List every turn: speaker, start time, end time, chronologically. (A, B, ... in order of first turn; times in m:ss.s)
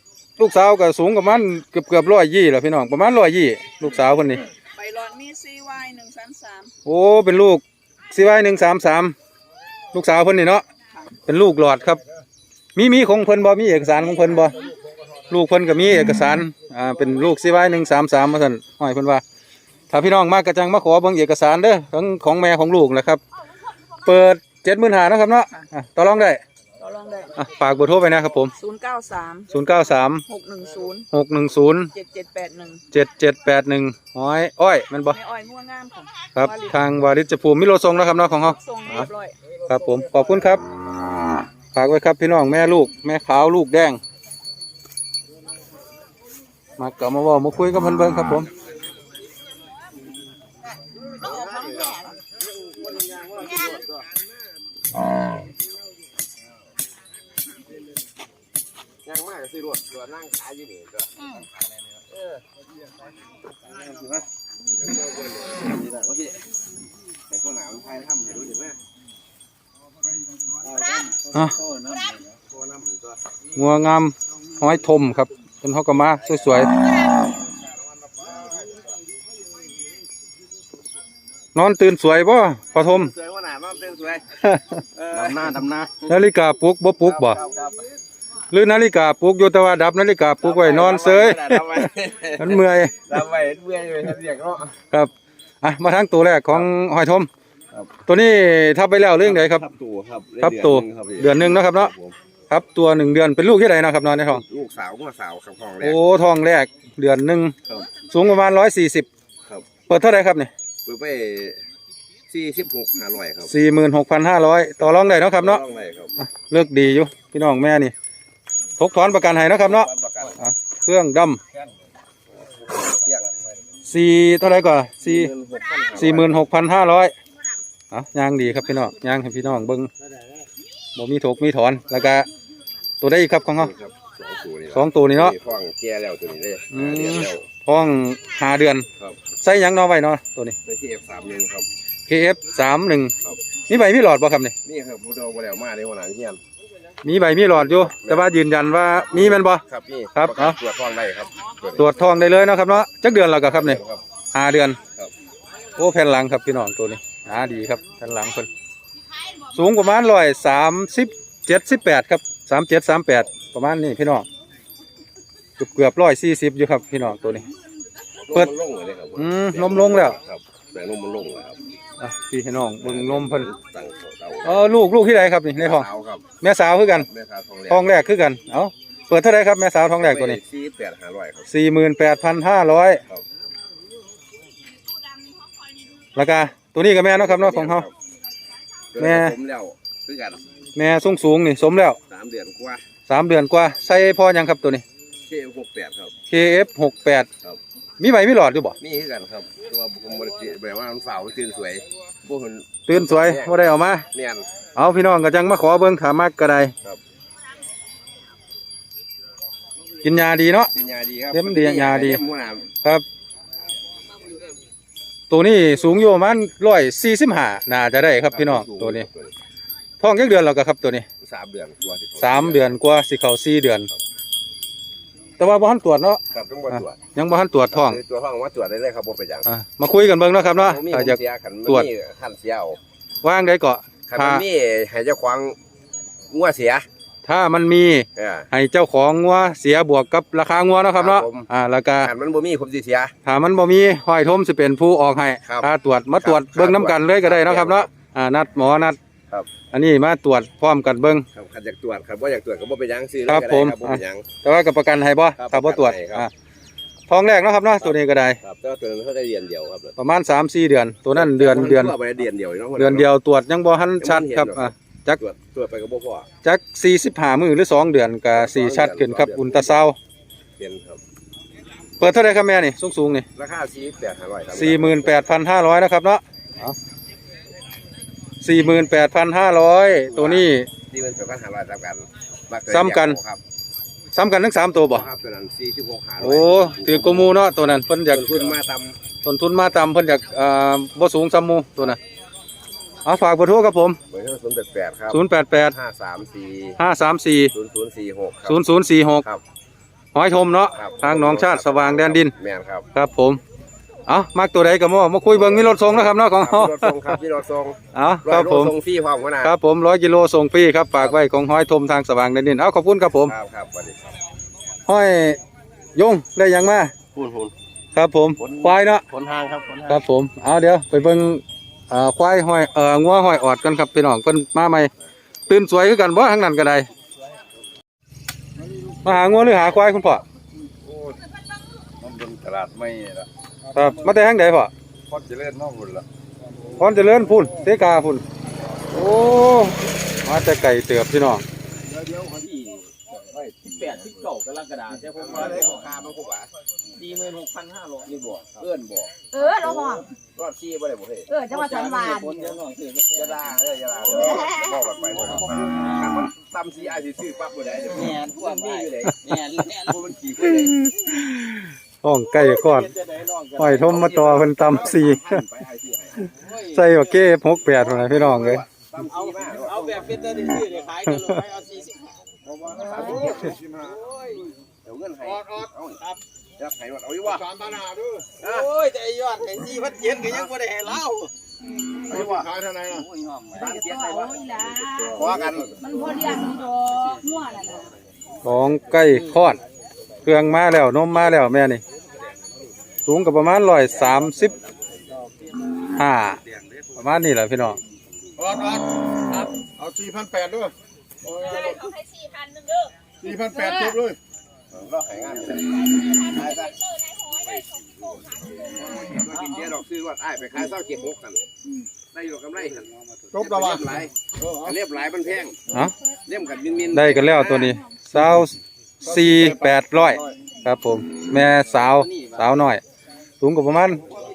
0:00.4-0:04.4 A
0:04.7-0:06.7 B
0:06.8-0:09.1 A
0:09.9-0:10.6 A
0:11.3-0:12.0 A
0:12.8-0:14.6 A
0:15.3-0:19.2 A
0:19.9-0:23.2 A
0:24.0-0:26.4 A
0:26.8-0:27.4 B
0:27.4-0:28.5 A
0:28.6-0:29.6 B
0:29.5-0:30.2 A
0:30.2-0:31.1 B
0:31.1-0:31.9 A
0:31.9-0:32.8 B
0:32.9-0:35.2 A
0:35.1-0:36.8 B
0:36.3-0:39.1 A
0:38.4-0:39.3 B
0:39.7-0:40.6 A
0:41.7-0:44.0 A
0:46.8-0:48.5 A
0:51.2-0:52.0 B
0:51.2-0:52.0 C
0:52.9-0:53.9 C
0:59.0-1:01.1 C
1:05.0-1:06.4 C
1:07.3-1:08.8 C
1:11.8-1:12.1 B
1:12.5-1:13.2 C
1:13.5-1:16.7 A
1:21.5-1:23.1 A
1:22.8-1:24.2 C
1:24.4-1:24.8 A
1:25.0-1:26.1 C
1:26.0-1:27.4 A
1:27.1-1:27.8 C
1:28.5-1:32.9 A
1:30.4-1:34.7 C
1:35.6-1:37.3 A
1:38.0-1:39.6 A
1:39.2-1:42.2 C
1:40.4-1:41.9 A
1:42.5-1:44.4 A
1:44.3-1:46.0 C
1:45.8-1:47.5 A
1:48.1-1:49.1 A
1:49.9-1:50.5 A
1:50.8-1:51.6 C
1:52.3-1:53.5 C
1:53.5-1:55.6 A
1:55.2-1:56.2 C
1:56.2-1:57.9 A
1:58.8-2:01.4 A
1:59.5-2:00.4 C
2:02.4-2:03.3 C
2:03.8-2:05.3 A
2:05.0-2:06.4 C
2:06.0-2:07.1 A
2:07.9-2:09.9 A
2:10.9-2:12.3 A
2:13.0-2:13.7 A
2:13.6-2:17.5 C
2:14.7-2:15.3 A
2:16.7-2:18.8 A
2:19.4-2:20.5 A
2:20.6-2:21.7 C
2:22.1-2:23.1 A
2:23.7-2:24.5 A
2:24.6-2:26.4 C
2:27.0-2:29.6 A
2:27.6-2:28.3 C
2:29.1-2:31.9 C
2:30.1-2:30.6 A
2:31.8-2:33.8 A
2:33.4-2:34.0 C
2:34.3-2:34.8 A
2:35.8-2:38.5 A
2:39.5-2:44.3 A
2:45.6-2:47.5 A
2:48.2-2:51.6 C
2:49.2-2:50.2 A
2:52.0-2:53.5 A
2:52.8-2:54.7 C
2:54.4-2:55.9 A
2:55.6-2:56.2 C
2:56.4-2:57.1 A
2:56.9-2:58.0 C
2:57.7-3:00.4 A
3:00.0-3:01.5 C
3:01.5-3:03.0 A
3:06.1-3:07.9 A
3:07.1-3:07.9 C
3:08.9-3:10.6 C
3:09.0-3:09.4 A
3:10.8-3:12.0 A
3:12.1-3:12.8 C
3:13.1-3:14.8 A
3:15.2-3:16.2 C
3:16.3-3:17.3 A
3:18.0-3:18.8 A
3:18.8-3:24.4 C
3:22.9-3:24.0 A
3:24.8-3:26.7 A
3:30.0-3:30.7 A
3:30.7-3:32.7 C
3:31.3-3:32.2 A
3:35.3-3:39.1 A
3:38.3-3:39.3 C
3:40.0-3:41.0 A
3:41.2-3:42.7 C
3:42.2-3:43.9 A
3:45.4-3:46.2 A
3:46.3-3:47.0 C
3:46.7-3:48.0 A
3:47.7-3:49.5 C
3:49.4-3:51.9 A
3:50.5-3:52.8 C
3:53.2-3:54.4 A
3:54.1-3:55.6 C
3:56.3-3:56.8 C
3:57.2-4:02.1 A
3:58.2-3:58.5 C
4:01.0-4:03.1 C
4:03.2-4:09.0 A
4:05.4-4:07.9 C
4:09.7-4:11.2 A
4:11.3-4:14.3 C
4:13.3-4:16.3 A
4:15.4-4:16.3 C
4:17.1-4:18.4 A
4:18.4-4:20.0 C
4:20.0-4:21.9 A
4:21.1-4:23.1 C
4:22.8-4:25.2 A
4:24.0-4:26.3 C
4:26.4-4:30.0 A
4:28.3-4:29.8 C
4:30.6-4:31.0 C
4:32.0-4:33.2 A
4:33.3-4:35.2 C
4:34.5-4:36.8 A
4:38.4-4:40.7 A
4:40.1-4:43.4 C
4:42.7-4:43.2 A
4:44.1-4:45.1 A
4:44.9-4:47.3 C
4:46.2-4:48.5 A
4:48.1-4:49.0 C
4:49.2-4:52.0 A
4:53.0-4:54.0 A
4:54.1-4:56.8 C
4:55.1-4:55.7 A
4:56.8-4:57.5 A
4:57.5-4:58.6 C
4:58.4-4:59.2 A
5:00.1-5:02.3 A
5:00.7-5:02.8 C
5:02.9-5:03.4 A
5:04.1-5:07.2 A
5:05.3-5:09.5 C
5:07.9-5:08.7 A
5:09.4-5:13.3 A
5:13.2-5:14.1 C
5:14.9-5:15.4 A
5:15.9-5:16.9 A
5:17.1-5:17.5 C
5:17.9-5:19.0 A
5:18.4-5:20.0 C
5:19.9-5:24.9 A
5:25.5-5:26.9 A
5:29.0-5:30.2 A
5:32.0-5:33.2 D
5:33.7-5:34.7 A
5:35.1-5:36.0 D
5:36.8-5:38.2 A
5:38.9-5:41.4 A
5:41.8-5:44.3 C
5:43.3-5:45.7 E
5:45.0-5:46.5 C
5:47.0-5:48.1 E
5:48.0-5:49.1 C
5:49.3-5:50.1 B
5:50.3-5:51.3 C
5:51.3-5:52.4 B
5:51.5-5:53.2 E
5:53.1-6:00.7 C
5:54.1-5:54.7 B
5:57.9-5:59.6 E
6:00.4-6:02.9 A
6:02.4-6:03.8 E
6:03.6-6:05.4 A
6:03.7-6:06.3 C
6:06.4-6:06.8 E
6:06.7-6:08.6 A
6:08.0-6:10.0 C
6:09.6-6:12.1 E
6:11.1-6:11.4 A
6:12.4-6:13.6 C
6:12.9-6:14.4 E
6:14.8-6:16.0 C
6:16.6-6:17.6 C
6:18.4-6:18.7 C
6:18.4-6:21.3 E
6:22.1-6:22.6 C
6:22.8-6:23.5 E
6:23.5-6:24.3 C
6:23.6-6:27.9 B
6:25.0-6:25.8 C
6:28.4-6:29.6 A
6:30.2-6:31.8 A
6:33.0-6:34.6 A
6:36.0-6:36.4 A
6:37.0-6:37.8 A
6:41.4-6:44.0 B
6:44.7-6:46.7 C
6:46.8-6:47.3 B
6:47.3-6:51.4 C
6:52.1-6:55.6 C
6:56.2-6:57.8 C
6:56.9-7:02.8 A
7:03.4-7:04.0 A